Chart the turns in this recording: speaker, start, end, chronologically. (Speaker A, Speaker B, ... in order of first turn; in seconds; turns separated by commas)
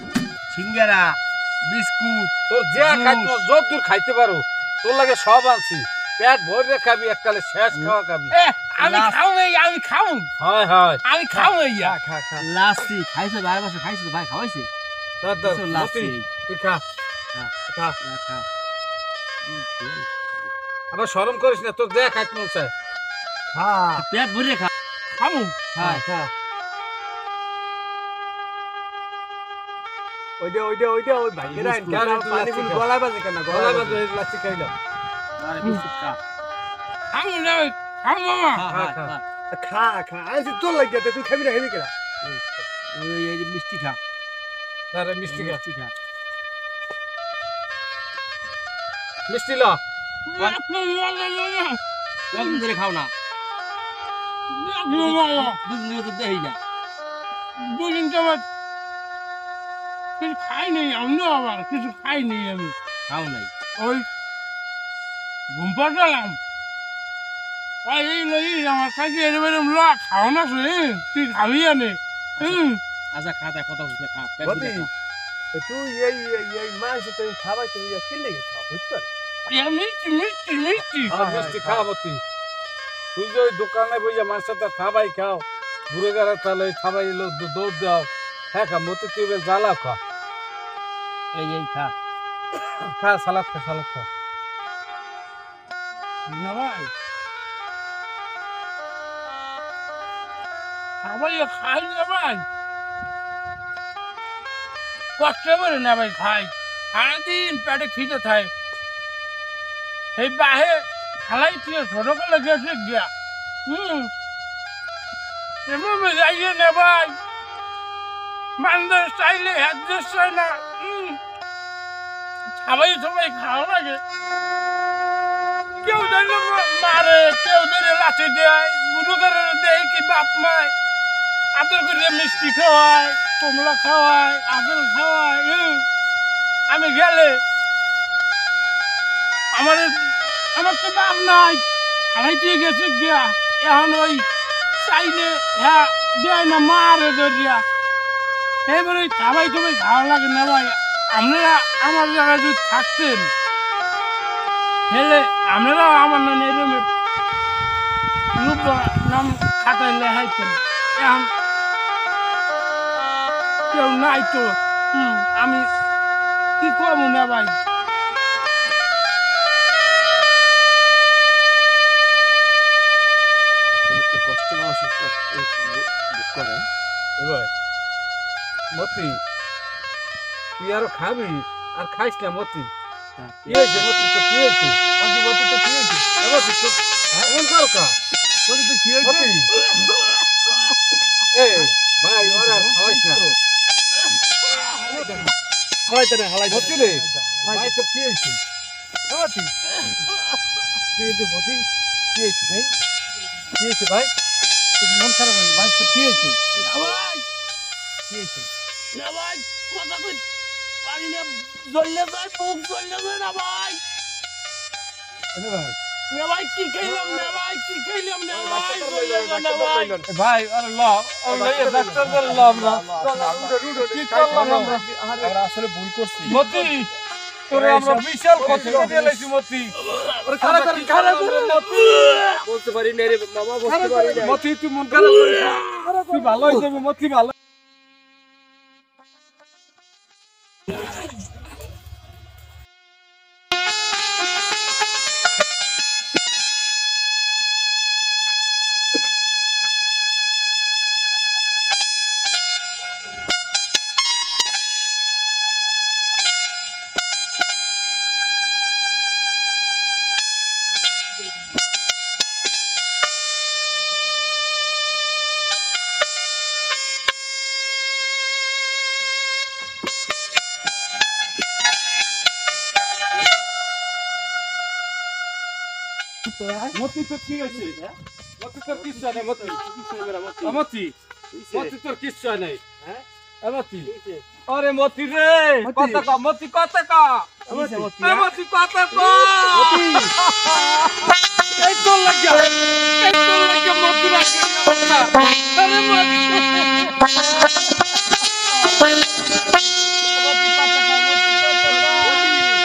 Speaker A: 0.5-2.3, Speaker B: 2.5-8.3, Speaker A: 2.9-3.3, Speaker C: 8.3-10.3, Speaker A: 8.8-9.2, Speaker B: 10.4-11.0, Speaker C: 11.0-11.9, Speaker D: 11.3-12.4, Speaker A: 12.4-14.7, Speaker B: 15.2-16.8, Speaker A: 15.4-16.3, Speaker D: 17.7-18.0, Speaker A: 18.1-18.4, Speaker A: 19.5-20.3, Speaker B: 20.9-22.7, Speaker D: 23.5-24.1, Speaker A: 24.0-24.7, Speaker C: 25.1-25.6, Speaker A: 25.8-26.2, Speaker D: 30.4-33.8, Speaker B: 31.5-32.8, Speaker B: 33.5-34.7, Speaker A: 33.6-34.0, Speaker A: 35.4-36.1, Speaker C: 37.1-38.7, Speaker A: 38.6-39.2, Speaker B: 38.7-39.1, Speaker D: 39.5-41.9, Speaker A: 42.3-44.0, Speaker B: 44.9-45.6, Speaker A: 45.3-45.9, Speaker B: 49.3-49.8, Speaker C: 50.3-51.8, Speaker A: 52.3-53.1, Speaker C: 54.5-55.6, Speaker A: 54.9-56.6, Speaker C: 57.6-58.4, Speaker C: 60.2-62.8, Speaker A: 63.1-63.5, Speaker C: 63.8-64.1, Speaker C: 65.5-66.4, Speaker C: 67.8-72.8, Speaker A: 73.1-74.9, Speaker D: 74.4-74.9, Speaker D: 75.5-79.1, Speaker C: 79.5-81.2, Speaker D: 81.1-81.7, Speaker B: 81.1-82.2, Speaker A: 81.4-81.8, Speaker B: 83.2-90.0, Speaker A: 91.4-91.9, Speaker B: 92.8-94.1, Speaker C: 96.3-96.9, Speaker C: 101.0-102.5, Speaker C: 105.2-108.5, Speaker C: 110.2-113.1, Speaker C: 113.7-114.1, Speaker C: 115.7-117.2, Speaker C: 118.6-121.2, Speaker C: 122.5-124.0, Speaker C: 125.8-130.7, Speaker C: 131.6-135.9, Speaker C: 136.7-137.4, Speaker C: 139.5-144.3, Speaker C: 144.8-147.6, Speaker C: 148.7-153.3, Speaker C: 154.9-156.9, Speaker C: 158.4-161.3, Speaker C: 163.7-165.7, Speaker C: 166.6-167.6, Speaker A: 174.0-175.3, Speaker D: 174.3-174.7, Speaker A: 176.1-176.6, Speaker B: 177.2-177.5, Speaker B: 178.7-179.2, Speaker B: 180.6-182.7, Speaker A: 183.3-183.7, Speaker B: 183.5-184.8, Speaker D: 185.0-186.1, Speaker B: 186.2-188.0, Speaker D: 188.5-189.4, Speaker B: 189.0-189.5, Speaker B: 191.3-193.2, Speaker D: 194.9-195.2, Speaker D: 195.9-197.7, Speaker B: 196.5-198.4, Speaker D: 199.1-199.5, Speaker B: 201.0-202.7, Speaker B: 203.6-204.1, Speaker B: 204.8-206.4, Speaker C: 206.5-207.3, Speaker C: 208.9-210.2, Speaker C: 210.8-213.8, Speaker D: 215.3-215.7, Speaker C: 216.1-220.0, Speaker D: 216.8-217.4, Speaker D: 218.3-220.1, Speaker B: 220.1-224.8, Speaker D: 221.3-225.3, Speaker A: 225.2-226.4, Speaker B: 226.3-226.7, Speaker C: 226.3-226.9, Speaker B: 227.5-229.8, Speaker D: 227.6-229.0, Speaker C: 227.7-228.9, Speaker D: 230.3-231.3, Speaker B: 230.4-232.4, Speaker A: 232.4-234.4, Speaker D: 233.7-234.3, Speaker B: 233.9-237.3, Speaker B: 276.7-277.8, Speaker B: 278.4-279.6, Speaker A: 279.7-280.5, Speaker B: 280.4-280.9, Speaker A: 281.3-281.6, Speaker B: 281.5-282.6, Speaker B: 283.4-283.9, Speaker B: 284.5-296.9, Speaker D: 285.6-286.1, Speaker D: 287.5-288.3, Speaker D: 289.5-290.1, Speaker C: 300.1-302.4, Speaker D: 301.8-302.4